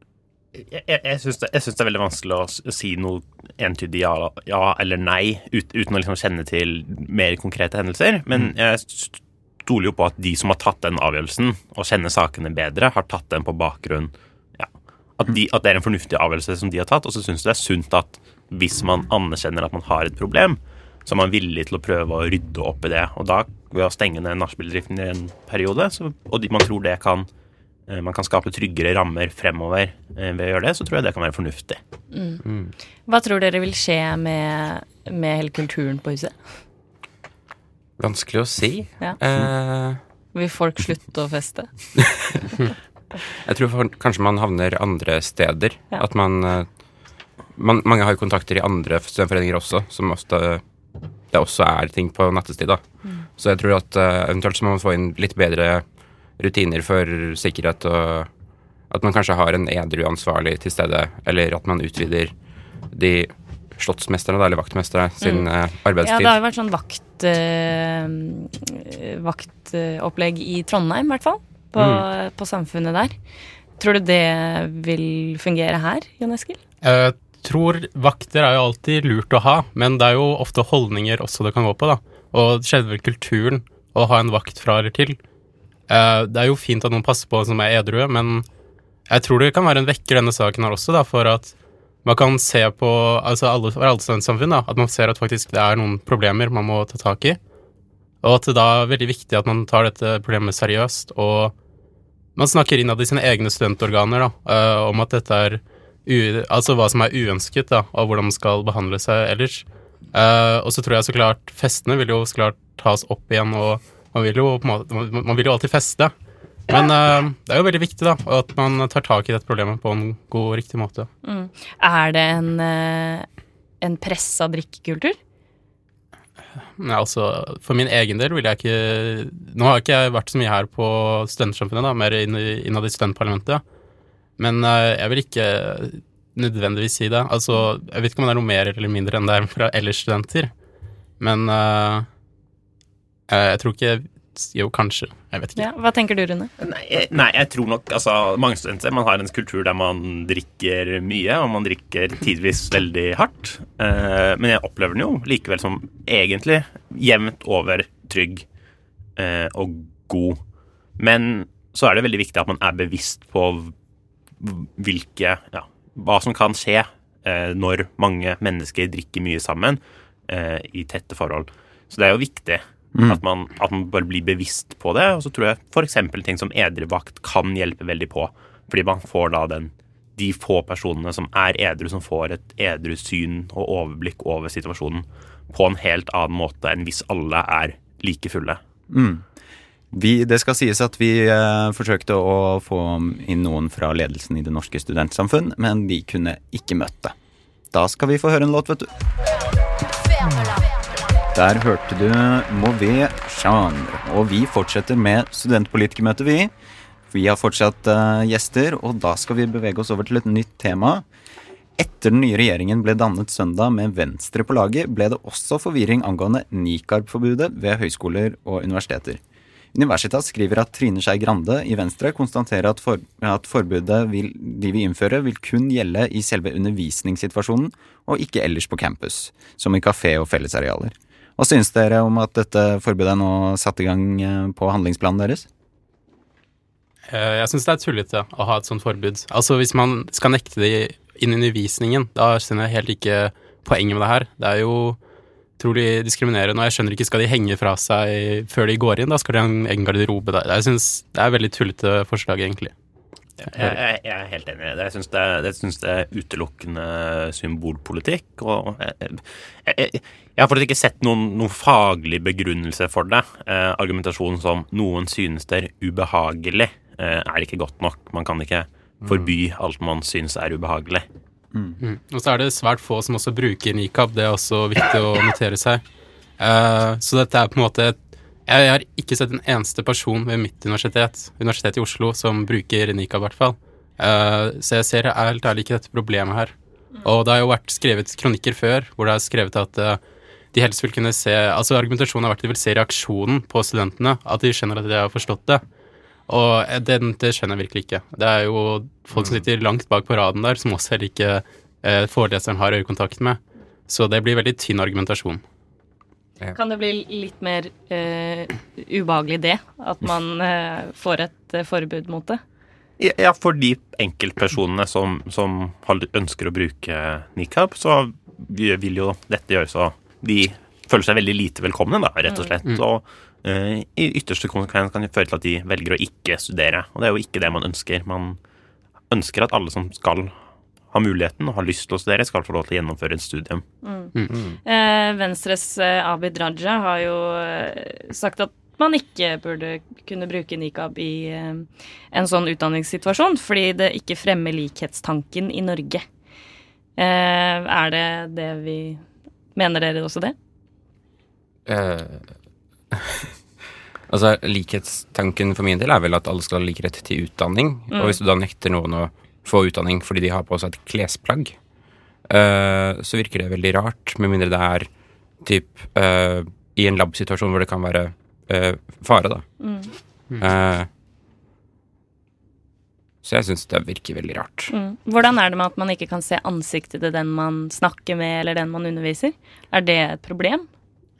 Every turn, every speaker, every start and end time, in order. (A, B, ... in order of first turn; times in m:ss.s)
0:00.5-0:27.3 A
0:27.9-0:31.8 A
0:32.1-0:32.4 B
0:32.4-0:32.7 C
0:33.1-0:36.4 B
0:38.0-0:40.0 C
0:40.3-0:42.0 B
0:43.4-0:46.8 C
0:47.5-0:50.6 C
0:51.3-0:52.8 C
0:53.4-0:55.8 C
0:56.4-0:58.3 C
0:58.9-1:02.3 C
1:02.9-1:06.3 C
1:05.2-1:05.5 B
1:06.0-1:13.2 B
1:11.8-1:12.0 D
1:13.8-1:16.6 B
1:16.8-1:25.2 D
1:25.9-1:28.4 D
1:29.1-1:31.5 D
1:32.0-1:37.4 D
1:38.2-1:41.5 D
1:42.4-1:56.1 D
1:56.7-2:01.1 D
2:01.2-2:03.3 B
2:03.8-2:05.2 B
2:06.8-2:13.6 D
2:14.4-2:20.5 D
2:21.2-2:22.0 D
2:23.3-2:25.7 D
2:25.6-2:26.5 B
2:26.6-2:38.4 A
2:39.2-2:40.4 A
2:41.0-2:43.7 A
2:44.4-3:08.6 A
2:52.9-2:53.2 E
3:08.9-3:09.2 E
3:09.9-3:17.1 E
3:17.7-3:18.9 E
3:21.3-3:26.5 E
3:27.1-3:31.0 E
3:31.8-3:39.2 E
3:39.7-3:55.5 E
3:57.1-4:05.0 D
4:05.6-4:12.7 D
4:13.4-4:13.8 D
4:13.5-4:31.0 A
4:29.0-4:29.3 C
4:31.8-4:35.8 D
4:36.4-4:50.0 D
4:50.5-4:55.6 D
4:56.3-5:05.4 D
4:59.1-4:59.4 C
5:06.5-5:12.4 B
5:13.0-5:28.4 A
5:22.3-5:22.6 B
5:29.1-5:30.3 A
5:30.9-5:33.6 A
5:33.8-5:34.1 B
5:34.3-5:34.6 C
5:34.6-5:46.0 B
5:47.0-5:49.0 B
5:49.5-5:50.3 B
5:51.7-5:52.3 C
5:54.1-6:01.6 C
5:57.9-5:58.2 B
6:02.3-6:04.9 C
6:05.4-6:09.4 C
6:09.6-6:09.9 B
6:10.4-6:10.9 C
6:13.2-6:14.7 C
6:14.7-6:20.7 B